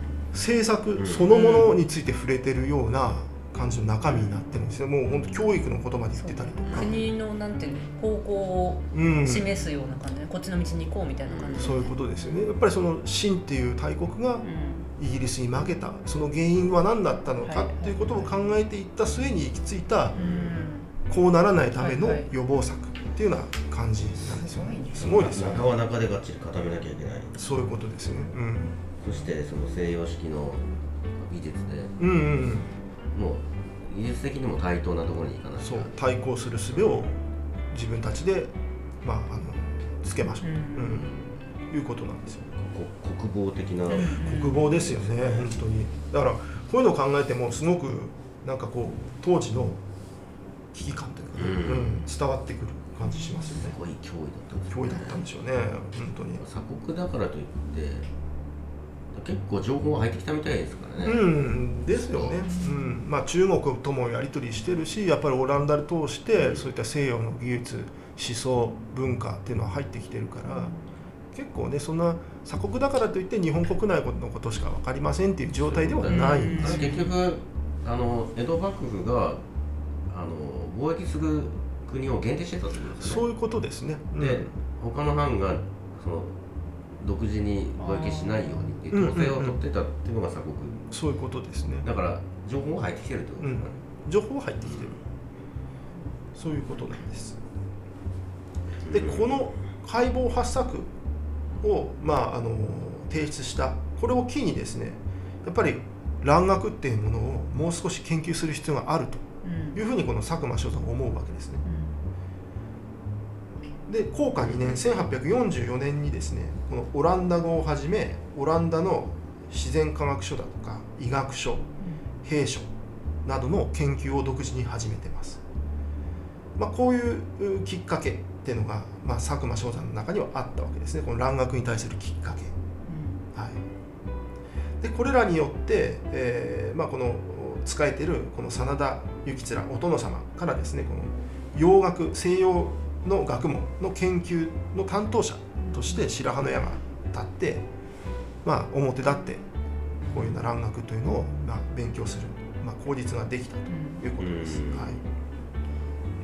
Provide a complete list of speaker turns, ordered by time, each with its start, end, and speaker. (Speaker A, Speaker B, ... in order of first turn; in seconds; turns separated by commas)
Speaker A: 0.3-6.9, Speaker B: 1.0-1.3, Speaker C: 1.3-1.8, Speaker C: 6.1-12.1, Speaker B: 6.6-7.1, Speaker A: 8.9-9.5, Speaker B: 11.2-11.8, Speaker A: 11.6-14.4, Speaker C: 14.4-14.9, Speaker A: 15.0-20.1, Speaker C: 17.4-18.4, Speaker C: 20.1-20.9, Speaker B: 20.1-20.6, Speaker A: 21.1-25.7, Speaker C: 21.8-22.3, Speaker C: 24.2-25.6, Speaker B: 25.0-27.4, Speaker A: 27.4-28.8, Speaker B: 29.0-30.6, Speaker B: 31.1-32.0, Speaker A: 32.0-32.7, Speaker B: 33.1-35.9, Speaker A: 35.6-37.2, Speaker B: 36.7-37.0, Speaker A: 37.7-41.1, Speaker C: 40.4-41.1, Speaker A: 41.7-42.6, Speaker B: 42.6-44.2, Speaker C: 43.9-44.8, Speaker A: 44.2-49.8, Speaker B: 44.8-45.6, Speaker A: 50.7-53.8, Speaker B: 51.4-52.0, Speaker C: 53.0-53.5, Speaker B: 53.5-55.2, Speaker A: 54.7-56.4, Speaker B: 56.4-58.1, Speaker B: 59.1-61.3, Speaker A: 61.0-70.7, Speaker B: 62.1-62.4, Speaker C: 62.5-62.9, Speaker B: 66.3-66.6, Speaker A: 71.3-76.8, Speaker B: 75.6-79.4, Speaker C: 76.1-77.1, Speaker B: 80.1-83.2, Speaker A: 83.0-84.5, Speaker B: 84.2-86.4, Speaker B: 87.0-90.8, Speaker C: 87.8-88.8, Speaker A: 88.9-89.6, Speaker A: 90.9-91.8, Speaker B: 91.8-93.7, Speaker A: 93.4-95.0, Speaker B: 94.6-94.9, Speaker A: 96.3-97.4, Speaker B: 98.9-99.3, Speaker A: 98.9-100.9, Speaker A: 101.6-111.6, Speaker C: 109.4-109.8, Speaker C: 111.6-112.0, Speaker A: 113.9-121.7, Speaker A: 122.2-122.7, Speaker A: 123.2-125.4, Speaker A: 126.6-132.5, Speaker C: 132.9-133.2, Speaker A: 134.8-147.6, Speaker C: 145.6-146.0, Speaker A: 148.4-149.4, Speaker A: 150.1-155.0, Speaker C: 153.7-154.0, Speaker B: 154.2-154.9